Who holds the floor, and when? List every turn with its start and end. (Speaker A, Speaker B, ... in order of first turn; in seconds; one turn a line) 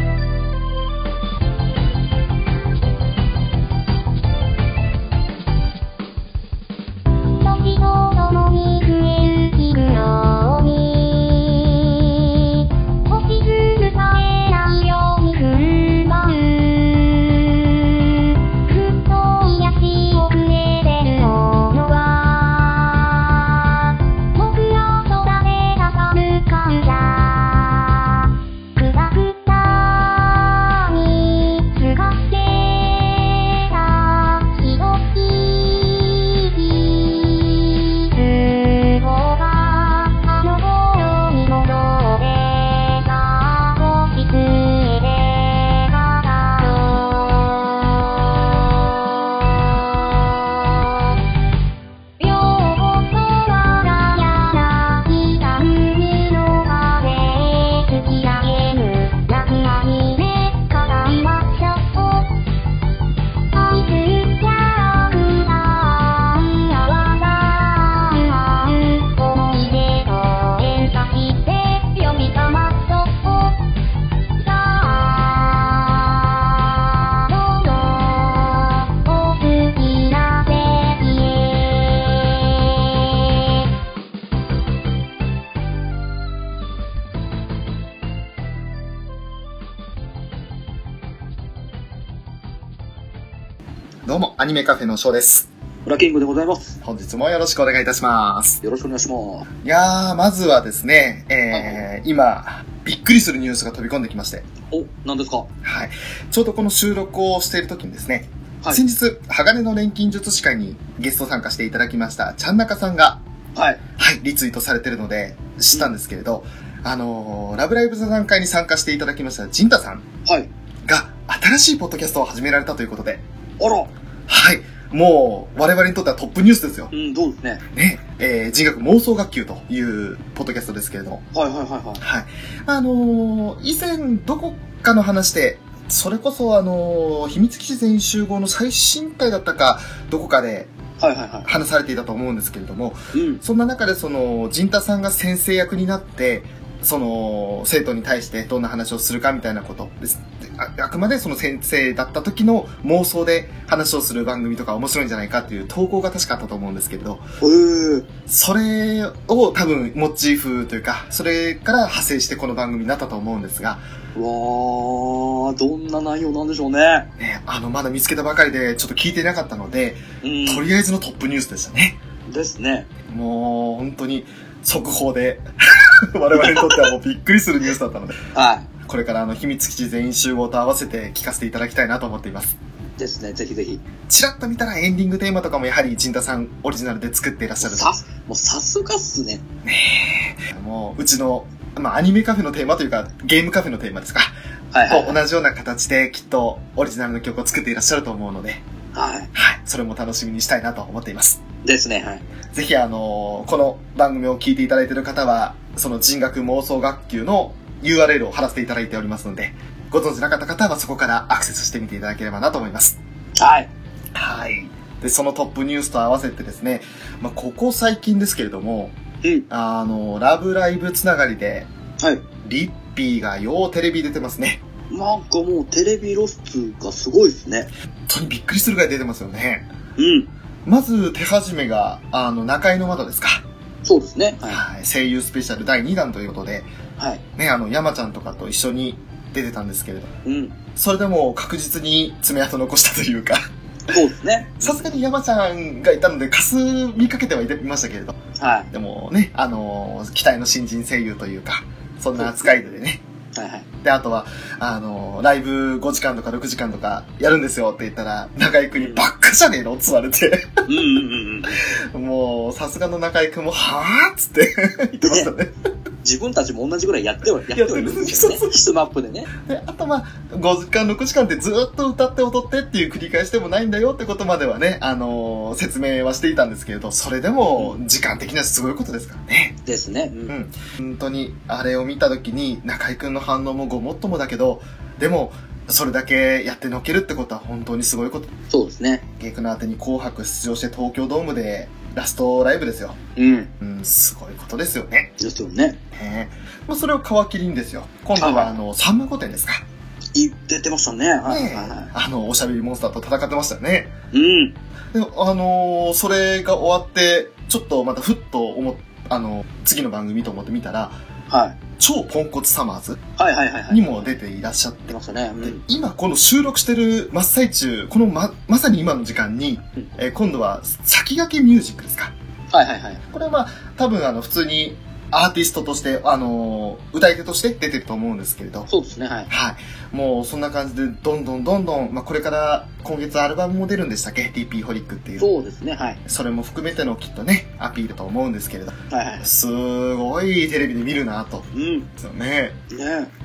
Speaker A: 7.4-51.2
Speaker A: 52.2-62.3
Speaker A: 63.5-73.7
Speaker A: 74.4-83.4
Speaker B: 94.1-95.5
Speaker C: 95.9-96.8
Speaker B: 96.8-98.6
Speaker C: 98.6-99.5
Speaker B: 99.6-104.5
Speaker C: 101.5-101.8
Speaker C: 104.7-105.5
Speaker B: 105.6-113.2
Speaker C: 113.5-113.8
Speaker B: 114.0-120.0
Speaker C: 120.3-120.5
Speaker B: 120.9-123.2
Speaker C: 123.6-123.9
Speaker B: 124.3-126.9
Speaker C: 126.9-127.6
Speaker B: 127.7-131.2
Speaker C: 131.3-132.0
Speaker B: 132.0-140.7
Speaker C: 141.0-141.5
Speaker B: 141.5-157.3
Speaker C: 143.1-143.4
Speaker C: 157.4-158.1
Speaker B: 158.3-163.8
Speaker C: 164.2-167.1
Speaker B: 167.2-172.0
Speaker C: 170.2-170.7
Speaker C: 172.3-172.9
Speaker B: 173.1-178.2
Speaker C: 176.4-176.9
Speaker C: 178.3-178.7
Speaker B: 178.8-182.6
Speaker C: 183.0-183.8
Speaker B: 184.1-187.9
Speaker C: 187.6-189.4
Speaker B: 189.7-194.3
Speaker C: 194.7-195.2
Speaker B: 194.9-198.6
Speaker C: 198.9-199.3
Speaker B: 199.3-201.4
Speaker C: 201.6-202.2
Speaker B: 202.5-213.0
Speaker C: 213.4-213.7
Speaker B: 214.1-219.0
Speaker B: 219.5-221.7
Speaker B: 222.4-224.6
Speaker C: 224.9-227.7
Speaker B: 228.1-229.7
Speaker C: 230.0-230.3
Speaker B: 230.7-233.4
Speaker C: 233.8-234.6
Speaker B: 234.5-236.7
Speaker B: 237.4-240.1
Speaker C: 240.2-240.6
Speaker B: 240.8-243.4
Speaker C: 243.9-244.8
Speaker B: 244.6-248.2
Speaker C: 248.4-248.7
Speaker B: 248.7-253.0
Speaker C: 252.2-252.5
Speaker C: 253.3-253.7
Speaker B: 253.8-260.7
Speaker C: 258.8-259.1
Speaker C: 260.7-261.6
Speaker B: 261.6-265.6
Speaker C: 265.0-265.3
Speaker C: 266.0-269.3
Speaker B: 267.5-268.5
Speaker B: 269.5-279.6
Speaker C: 279.6-280.3
Speaker B: 280.3-288.3
Speaker C: 288.5-289.0
Speaker B: 289.2-293.0
Speaker C: 293.2-293.5
Speaker B: 293.6-295.1
Speaker C: 295.2-295.8
Speaker B: 295.9-299.6
Speaker C: 298.2-298.5
Speaker C: 300.1-301.9
Speaker B: 301.2-303.9
Speaker C: 304.1-304.5
Speaker B: 304.9-311.0
Speaker C: 311.3-311.6
Speaker B: 311.8-313.0
Speaker C: 313.2-314.1
Speaker B: 313.7-322.1
Speaker C: 314.9-315.6
Speaker C: 322.5-323.0
Speaker B: 323.1-328.7
Speaker C: 328.7-329.3
Speaker B: 329.3-335.3
Speaker C: 335.2-336.0
Speaker B: 336.1-341.5
Speaker C: 338.9-339.3
Speaker C: 341.5-341.9
Speaker B: 342.0-342.6
Speaker C: 342.7-343.1